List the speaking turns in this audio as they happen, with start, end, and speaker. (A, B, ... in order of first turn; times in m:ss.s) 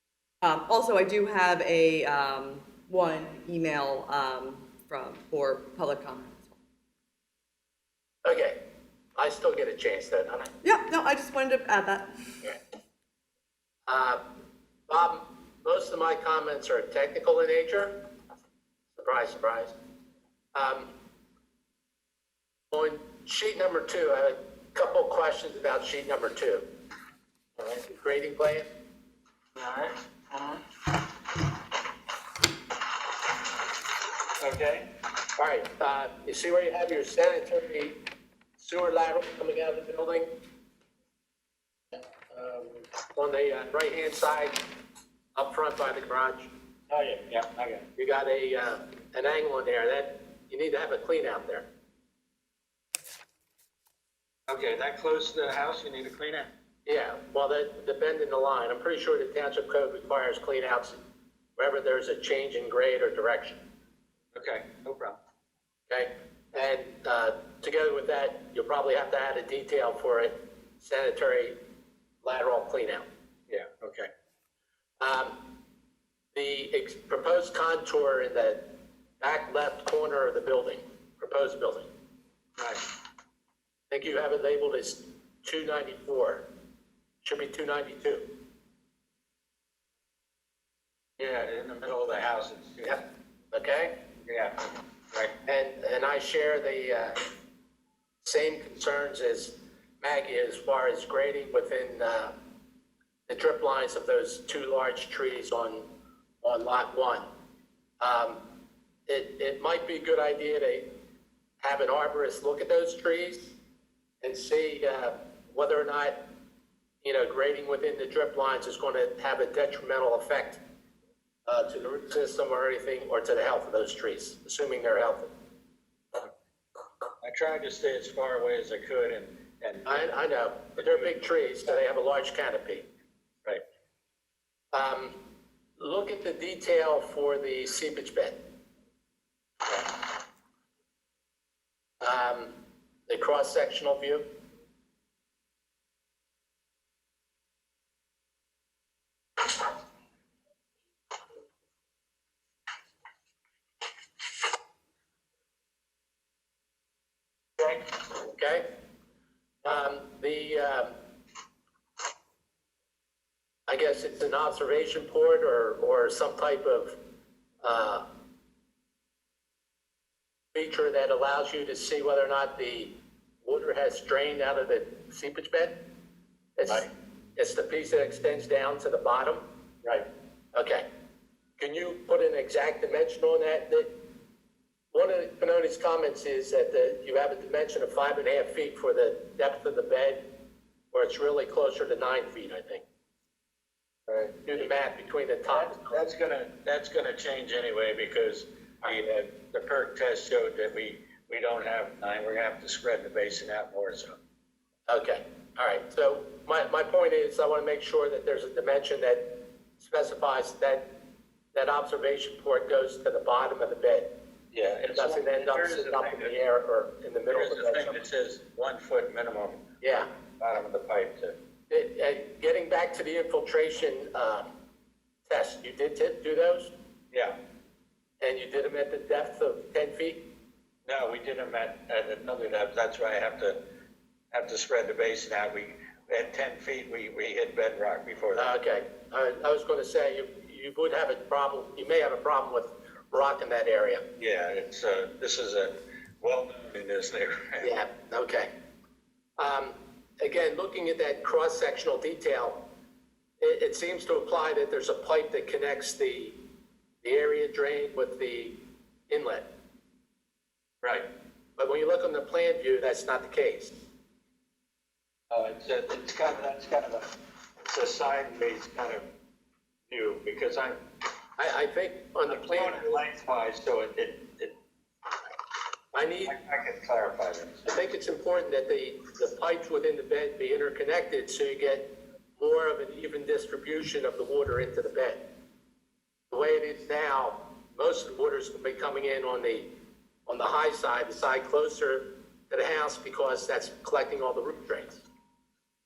0:00.4-0:06.6 A
0:08.2-0:08.6 B
0:09.2-0:10.5 B
0:10.6-0:12.1 A
0:13.9-0:14.2 B
0:14.9-0:18.0 B
0:18.9-0:19.7 B
0:20.5-0:20.9 B
0:22.7-0:26.7 B
0:27.6-0:27.8 C
0:27.9-0:28.7 B
0:29.6-0:30.6 C
0:34.4-0:34.9 C
0:35.4-0:38.0 B
0:38.6-0:40.3 B
0:42.3-0:42.8 C
0:43.1-0:44.6 B
0:45.3-0:46.5 B
0:46.9-0:47.8 C
0:48.0-0:51.6 B
0:54.5-0:56.5 C
0:56.8-1:01.0 B
1:01.6-1:03.6 B
1:04.3-1:05.2 C
1:05.9-1:11.6 B
1:12.2-1:13.0 B
1:13.5-1:14.1 C
1:15.0-1:15.4 B
1:16.3-1:18.6 B
1:19.2-1:21.9 B
1:22.6-1:22.8 C
1:23.9-1:26.4 B
1:27.2-1:28.3 B
1:31.2-1:33.0 C
1:33.5-1:33.9 B
1:34.2-1:35.3 C
1:35.4-1:37.2 B
1:38.2-1:42.3 B
1:43.3-1:45.9 B
1:46.4-1:47.3 B
1:48.0-1:48.4 B
1:49.1-1:50.9 B
1:51.6-1:53.5 B
1:54.2-1:56.2 B
1:57.0-2:00.6 B
2:01.5-2:05.3 B
2:07.2-2:10.1 C
2:09.8-2:12.9 B
2:10.8-2:11.1 C
2:14.7-2:15.2 B
2:15.8-2:18.4 B
2:19.7-2:19.9 C
2:22.0-2:22.5 B
2:23.1-2:24.2 B
2:37.7-2:38.6 B
2:39.6-2:40.9 B
2:43.7-2:47.0 B
2:47.6-2:48.0 B
2:50.5-2:55.8 B
2:56.6-2:59.4 B
3:00.5-3:00.8 B
3:01.6-3:03.9 B
3:04.9-3:10.2 B
3:10.9-3:12.8 B
3:14.1-3:14.7 C
3:14.4-3:16.0 B
3:15.5-3:24.2 C
3:24.9-3:29.3 B
3:29.8-3:30.9 B
3:31.5-3:34.1 B
3:34.5-3:36.3 C
3:34.9-3:38.0 B
3:37.3-3:39.6 C
3:39.8-3:40.1 B
3:40.4-3:41.4 C
3:41.7-3:44.5 B
3:45.3-3:46.7 B
3:48.2-3:50.2 B
3:50.8-3:53.6 C
3:54.3-3:58.5 C
3:58.4-4:04.0 B
4:04.2-4:07.7 C
4:07.6-4:08.5 B
4:09.4-4:12.6 B
4:13.4-4:16.4 B
4:17.0-4:18.6 B
4:19.1-4:19.5 B
4:21.6-4:23.8 B
4:25.3-4:27.1 C
4:27.6-4:29.0 C
4:29.9-4:30.8 C
4:31.4-4:33.0 B
4:32.3-4:34.5 C
4:35.9-4:36.3 B
4:36.2-4:37.7 C
4:37.6-4:41.9 B
4:42.4-4:45.2 B
4:46.3-4:49.7 B
4:50.3-4:55.0 B